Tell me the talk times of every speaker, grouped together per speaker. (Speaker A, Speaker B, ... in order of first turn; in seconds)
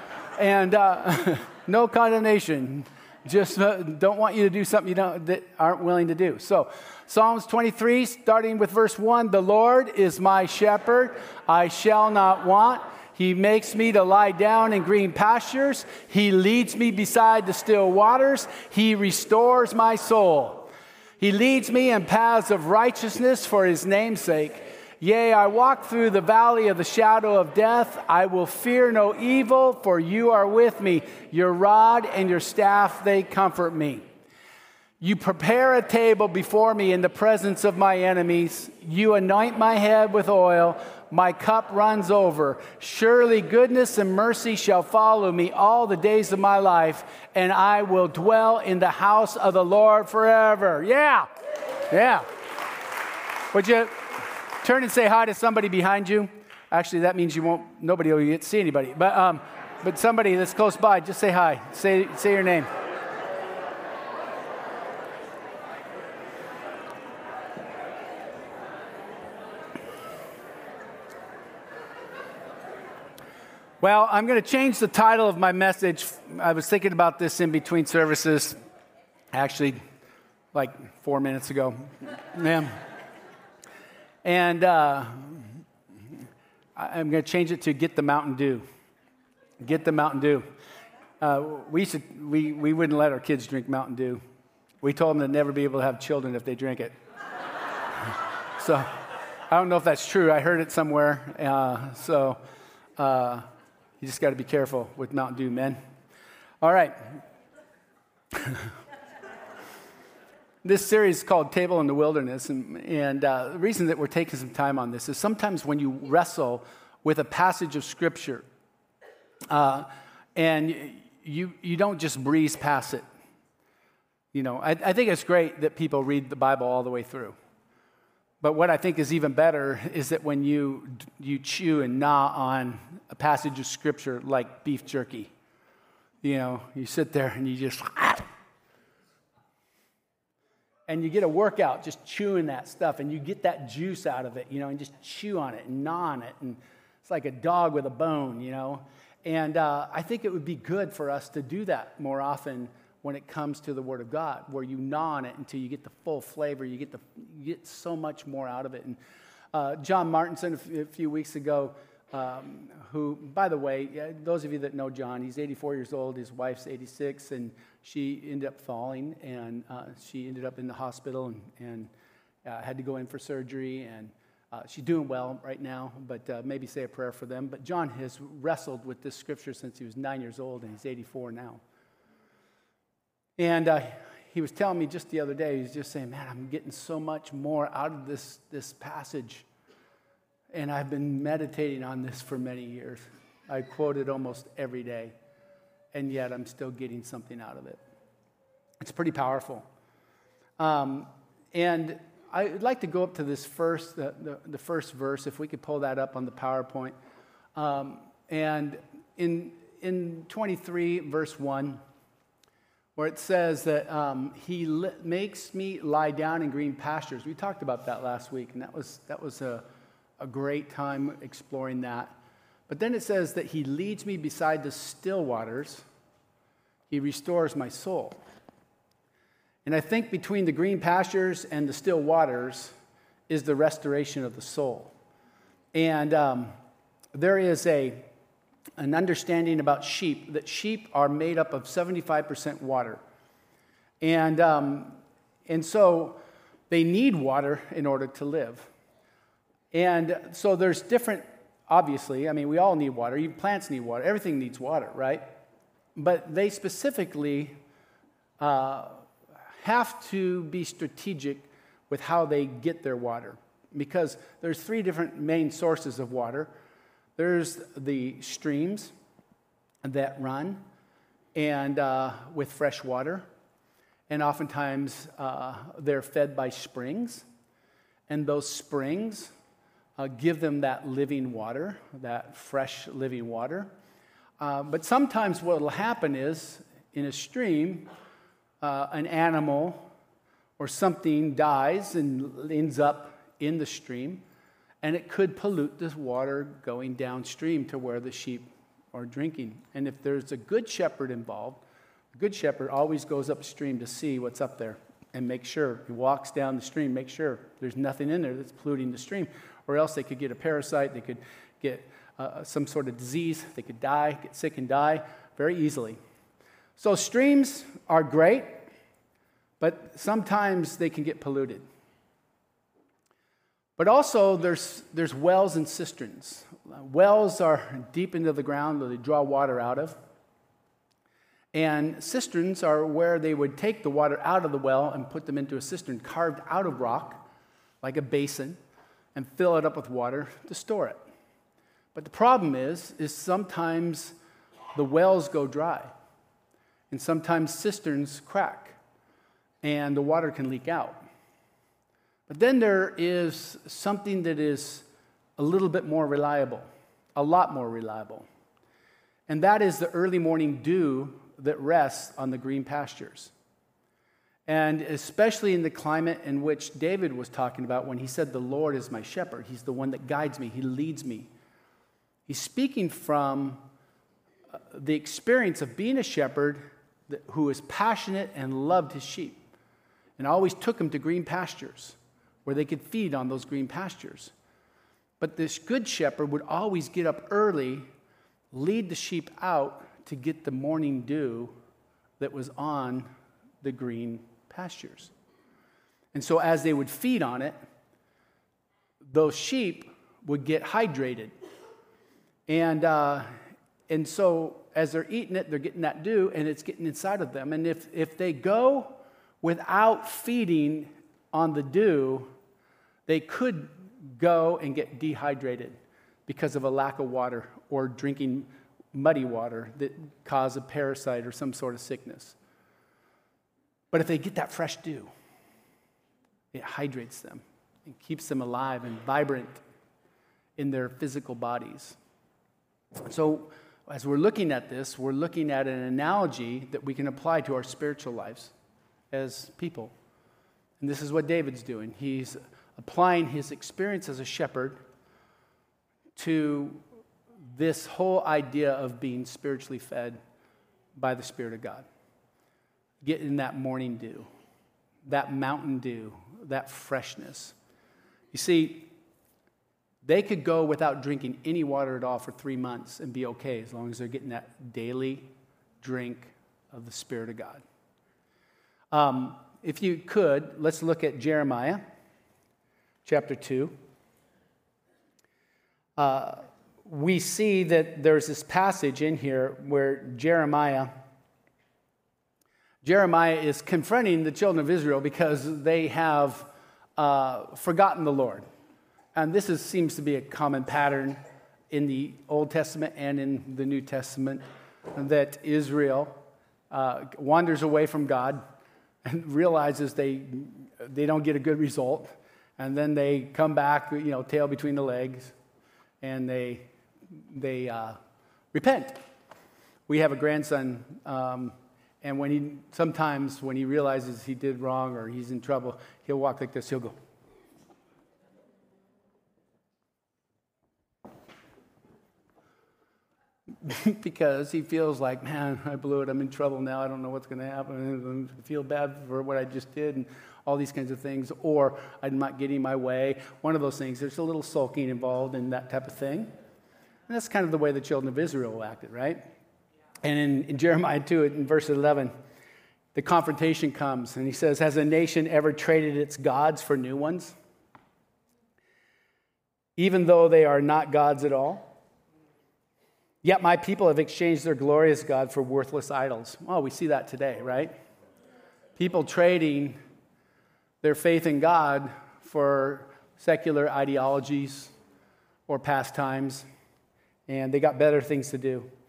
Speaker A: 0.3-34.1, 35.0-51.3, 51.9-52.3, 53.5-62.7, 73.8-78.6, 79.3-79.8, 80.5-82.8, 84.2-86.2, 86.8-88.6, 89.6-90.5, 91.2-94.2, 94.8-96.9, 98.0-102.4, 103.0-103.5, 104.0-105.8, 106.6-107.2, 108.3-108.7, 110.6-118.4, 119.5-123.0, 124.3-127.4, 128.4-135.3, 136.2-138.3, 140.9-159.0, 159.5-171.9, 172.4-181.6, 183.4-189.4, 190.5-195.1, 195.9-197.8, 198.8-199.7, 200.6-207.0, 207.6-211.8, 212.9-219.7, 220.2-222.2, 222.7-225.8, 226.9-228.2, 229.6-232.8, 233.3-234.9, 235.7-236.5, 237.1-238.1, 238.8-243.0, 244.0-246.2, 246.7-248.7, 249.7-255.3, 255.9-257.6, 258.4-266.5, 267.1-268.9, 269.8-270.6, 271.3-273.3, 274.1-277.3, 278.1-279.3, 280.0-283.7, 284.4-287.9, 288.6-289.9, 290.6-294.2, 294.8-301.6, 302.1-316.0, 316.8-318.7, 319.6-321.6, 323.8-330.0, 331.5-337.2, 337.8-338.6, 339.1-341.0, 341.9-344.1, 344.7-345.9, 346.9-348.8, 349.6-351.0, 352.3-358.3, 359.3-363.3, 364.5-371.3, 372.3-373.6, 374.5-379.4, 380.2-384.3, 385.2-387.9, 388.5-391.5, 392.2-393.1, 393.6-395.1, 396.1-397.5, 399.1-401.3, 402.5-412.3, 413.1-422.4, 423.9-425.1, 426.5-429.6, 430.6-432.0, 433.0-438.5, 439.1-439.9, 440.8-444.8, 446.1-446.8, 447.4-450.2, 450.9-451.9, 453.0-454.3, 455.0-457.6, 458.3-458.9, 460.0-467.6, 468.9-471.8, 473.0-473.7, 476.0-480.9, 482.8-488.4, 489.1-496.2, 496.7-498.4, 499.0-505.3, 506.0-508.0, 508.5-509.0, 509.9-517.0, 523.6-536.3, 537.1-539.3, 540.0-542.1, 542.9-547.4, 549.8-551.7, 553.2-557.8, 558.8-559.8, 560.8-564.7, 565.5-566.5, 567.3-568.7